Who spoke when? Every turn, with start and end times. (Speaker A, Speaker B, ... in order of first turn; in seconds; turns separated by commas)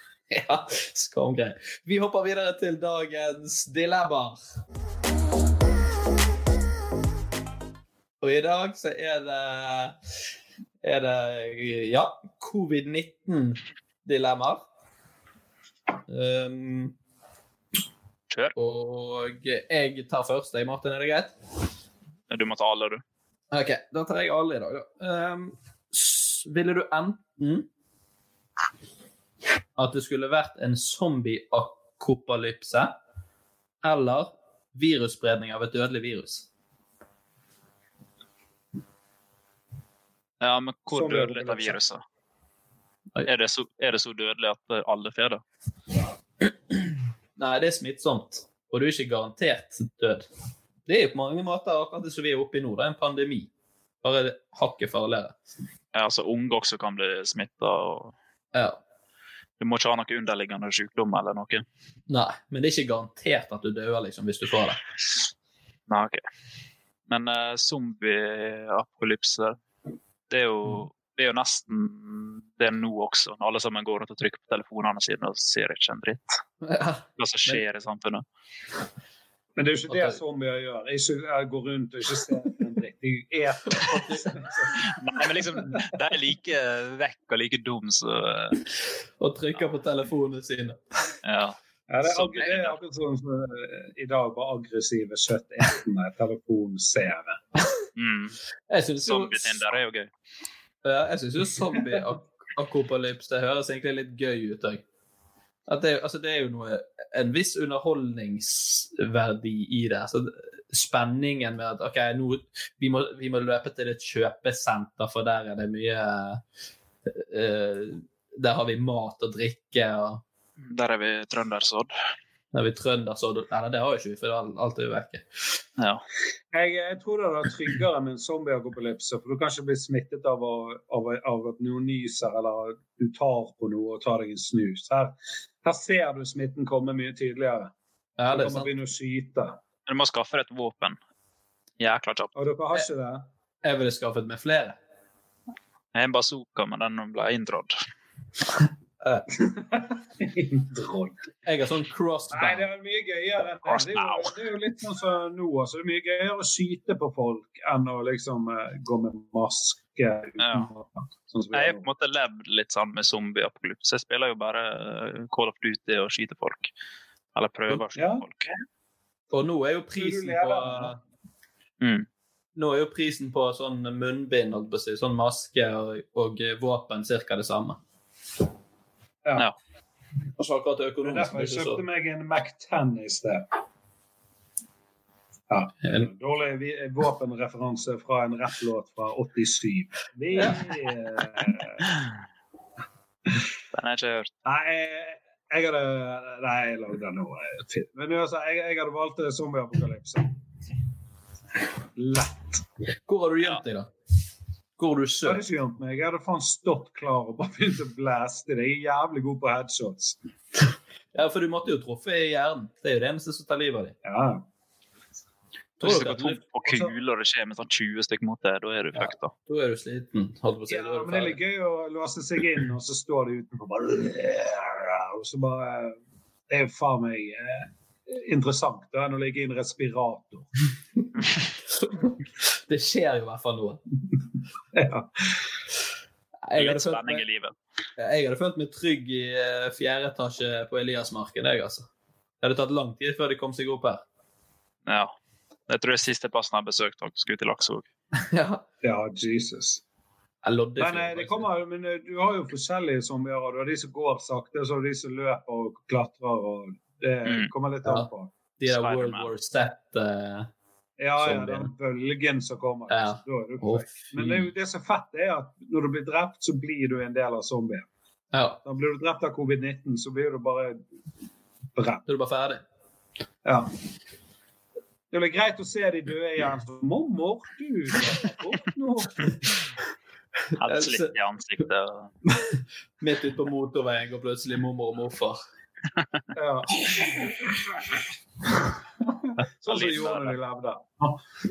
Speaker A: 0.3-4.4, Speaker A: 8.2-9.9, Speaker A: 10.8-14.6, Speaker A: 16.1-16.9, Speaker A: 18.6-21.3, Speaker B: 22.3-23.0, Speaker A: 23.5-27.7, Speaker A: 29.8-33.0, Speaker A: 33.8-36.5, Speaker B: 40.4-42.0, Speaker C: 40.9-41.8, Speaker B: 43.2-45.4, Speaker A: 47.4-50.3, Speaker A: 50.9-53.5, Speaker A: 54.0-55.4, Speaker B: 55.9-58.1, Speaker A: 58.5-58.8, Speaker B: 59.6-61.6, Speaker A: 62.1-64.8, Speaker B: 65.9-66.2, Speaker B: 67.1-69.6, Speaker B: 70.3-76.3, Speaker A: 76.6-77.6, Speaker B: 77.2-78.2, Speaker C: 79.6-84.8, Speaker A: 79.9-80.2, Speaker A: 83.8-84.3, Speaker B: 84.9-88.6, Speaker A: 89.2-90.8, Speaker B: 91.2-92.8, Speaker C: 91.9-97.4, Speaker B: 98.0-98.4, Speaker A: 98.7-99.7, Speaker B: 99.0-100.1, Speaker A: 100.8-104.8, Speaker A: 105.7-116.4, Speaker A: 117.1-120.2, Speaker B: 120.7-121.9, Speaker A: 122.5-125.2, Speaker B: 125.8-126.0, Speaker C: 126.5-137.7, Speaker A: 138.2-138.7, Speaker C: 138.3-139.6, Speaker B: 139.9-141.0, Speaker B: 141.8-142.3, Speaker C: 142.4-143.3, Speaker A: 143.6-144.8, Speaker B: 145.9-147.8, Speaker C: 149.3-151.2, Speaker A: 151.4-152.7, Speaker C: 152.3-161.9, Speaker B: 153.7-154.3, Speaker B: 160.4-160.7, Speaker B: 161.5-166.7, Speaker B: 167.3-168.5, Speaker C: 167.9-168.2, Speaker A: 169.3-171.0, Speaker C: 170.0-170.9, Speaker B: 171.8-172.1, Speaker A: 172.6-177.8, Speaker A: 180.4-181.8, Speaker C: 181.0-183.4, Speaker C: 185.5-191.9, Speaker A: 190.3-190.6, Speaker B: 193.7-194.3, Speaker C: 194.5-200.3, Speaker C: 202.0-202.6, Speaker A: 203.1-203.9, Speaker A: 204.8-205.4, Speaker C: 205.2-210.2, Speaker A: 211.1-214.0, Speaker C: 214.1-214.4, Speaker B: 215.8-219.3, Speaker A: 215.8-216.4, Speaker C: 216.7-216.9, Speaker A: 218.9-221.4, Speaker C: 220.7-226.0, Speaker C: 226.5-230.5, Speaker A: 231.7-233.8, Speaker C: 234.7-235.4, Speaker A: 236.5-237.2, Speaker B: 236.6-237.5, Speaker A: 238.0-241.9, Speaker A: 242.4-244.0, Speaker B: 244.9-245.1, Speaker B: 245.7-247.8, Speaker A: 248.2-248.6, Speaker C: 248.8-249.8, Speaker A: 250.4-251.5, Speaker C: 250.8-258.3, Speaker B: 257.3-257.5, Speaker A: 257.8-260.5, Speaker B: 258.7-259.3, Speaker C: 261.0-267.9, Speaker A: 261.2-261.7, Speaker A: 262.9-264.5, Speaker A: 268.3-268.6, Speaker C: 268.6-270.8, Speaker C: 271.8-272.0, Speaker A: 272.1-272.6, Speaker C: 273.4-273.7, Speaker C: 275.1-279.4, Speaker A: 280.6-281.1, Speaker B: 280.6-282.1, Speaker A: 282.3-285.4, Speaker C: 286.4-287.3, Speaker C: 289.6-291.2, Speaker B: 289.7-290.4